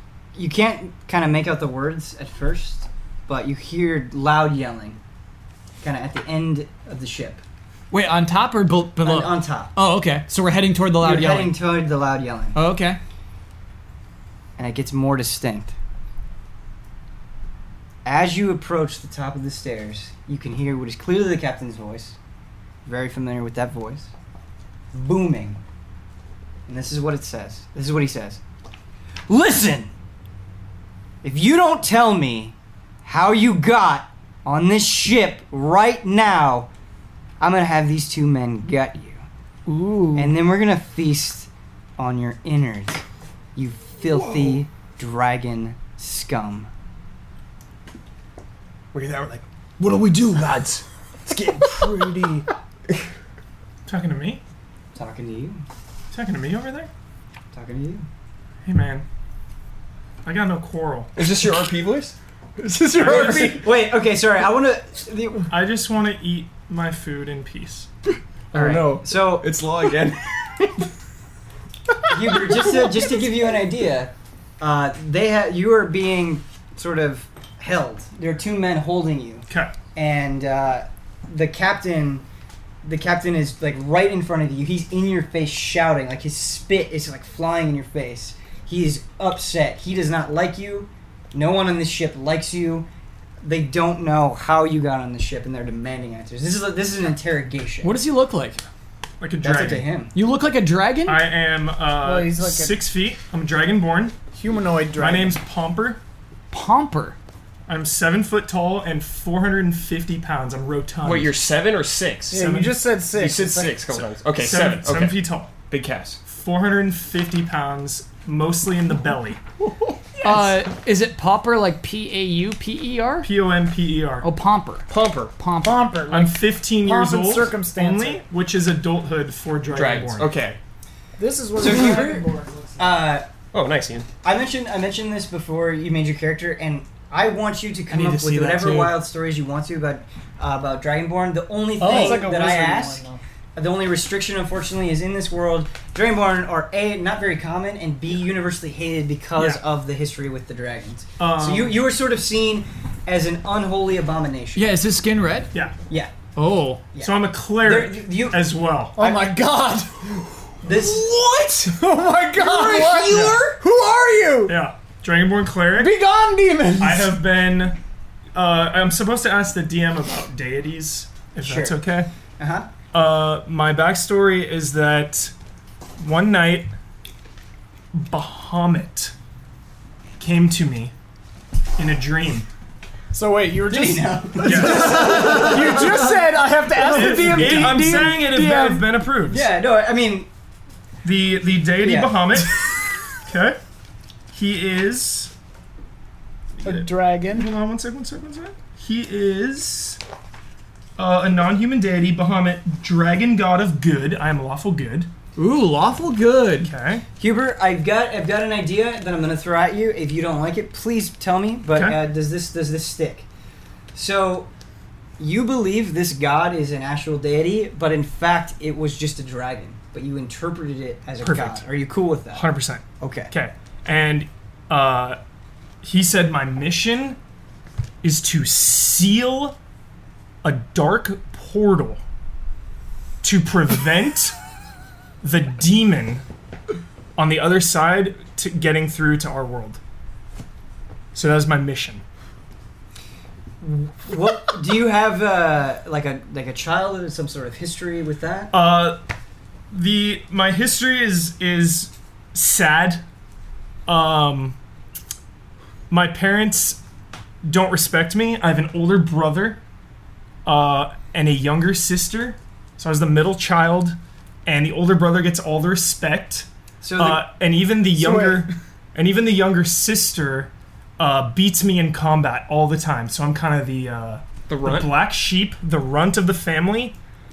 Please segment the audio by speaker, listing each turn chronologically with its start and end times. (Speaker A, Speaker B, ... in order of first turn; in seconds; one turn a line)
Speaker A: 0.3-5.0
Speaker A: 5.8-7.4
Speaker B: 7.9-11.5
Speaker A: 9.0-9.7
Speaker A: 11.0-12.6
Speaker B: 12.5-13.0
Speaker A: 14.6-15.7
Speaker A: 18.0-22.2
Speaker A: 22.8-24.1
Speaker A: 24.9-25.6
Speaker A: 26.7-28.4
Speaker A: 29.3-29.9
Speaker A: 31.2-36.7
Speaker A: 37.4-39.2
Speaker B: 39.7-40.4
Speaker A: 40.1-43.0
Speaker A: 43.5-46.7
Speaker C: 44.0-44.6
Speaker C: 48.9-53.1
Speaker D: 53.9-54.4
Speaker A: 54.9-55.6
Speaker D: 56.1-56.9
Speaker A: 57.5-58.1
Speaker D: 58.6-59.0
Speaker D: 60.2-61.1
Speaker C: 61.1-62.1
Speaker B: 62.6-63.6
Speaker A: 63.0-65.5
Speaker C: 63.1-63.5
Speaker D: 63.2-63.4
Speaker D: 65.5-67.9
Speaker C: 68.5-70.3
Speaker A: 68.5-69.5
Speaker A: 72.1-82.2
Speaker A: 82.8-92.9
Speaker A: 93.4-98.0
Speaker B: 97.8-98.6
Speaker D: 99.2-99.9
Speaker A: 99.4-100.1
Speaker B: 100.1-101.2
Speaker D: 101.0-104.1
Speaker E: 102.0-102.8
Speaker E: 104.3-105.4
Speaker D: 105.0-106.0
Speaker B: 106.5-107.2
Speaker D: 107.7-111.3
Speaker C: 111.0-112.5
Speaker E: 112.3-113.8
Speaker D: 112.3-112.8
Speaker C: 113.1-116.2
Speaker D: 114.3-115.5
Speaker D: 116.3-119.4
Speaker B: 120.2-123.3
Speaker D: 123.2-124.3
Speaker B: 124.2-126.0
Speaker C: 124.9-125.3
Speaker E: 125.6-128.2
Speaker D: 126.1-130.3
Speaker C: 129.7-130.6
Speaker E: 131.2-132.9
Speaker A: 131.6-132.2
Speaker A: 132.8-133.2
Speaker C: 133.5-134.1
Speaker A: 134.2-143.0
Speaker B: 137.9-138.9
Speaker E: 141.8-143.2
Speaker D: 141.8-142.2
Speaker A: 143.6-154.8
Speaker D: 149.3-149.6
Speaker D: 151.2-151.8
Speaker B: 154.5-155.5
Speaker A: 155.9-156.1
Speaker B: 156.3-156.8
Speaker A: 156.9-159.3
Speaker D: 157.0-159.0
Speaker E: 159.0-159.9
Speaker A: 160.6-161.1
Speaker C: 160.7-161.7
Speaker E: 161.7-164.6
Speaker C: 162.4-163.6
Speaker A: 162.8-163.2
Speaker D: 163.1-163.4
Speaker D: 164.5-165.9
Speaker E: 165.8-167.2
Speaker D: 166.8-167.8
Speaker D: 168.3-172.1
Speaker A: 171.4-171.8
Speaker A: 172.4-172.7
Speaker D: 172.9-175.3
Speaker D: 176.0-176.7
Speaker D: 177.9-179.1
Speaker D: 180.2-180.9
Speaker D: 181.8-182.5
Speaker E: 183.1-188.9
Speaker A: 183.7-186.1
Speaker D: 184.4-185.9
Speaker D: 186.8-189.5
Speaker A: 187.2-187.8
Speaker A: 189.3-190.3
Speaker D: 191.0-192.6
Speaker A: 191.8-192.4
Speaker D: 193.2-193.6
Speaker D: 194.3-195.3
Speaker D: 196.6-200.0
Speaker E: 196.6-197.5
Speaker D: 201.0-205.1
Speaker B: 205.4-206.7
Speaker D: 206.6-207.0
Speaker A: 207.2-213.2
Speaker D: 211.7-212.0
Speaker A: 213.9-214.5
Speaker A: 215.2-222.4
Speaker D: 221.2-221.6
Speaker D: 222.3-225.2
Speaker A: 223.0-223.3
Speaker D: 225.8-227.2
Speaker D: 228.0-229.6
Speaker D: 230.4-232.0
Speaker D: 233.2-234.3
Speaker D: 235.2-236.2
Speaker D: 237.2-239.8
Speaker D: 241.1-242.0
Speaker A: 243.6-248.5
Speaker D: 248.5-249.0
Speaker D: 249.7-253.0
Speaker D: 253.9-254.6
Speaker D: 255.9-256.8
Speaker D: 257.4-259.6
Speaker D: 260.4-276.9
Speaker A: 266.8-267.2
Speaker E: 267.9-268.5
Speaker C: 274.5-274.9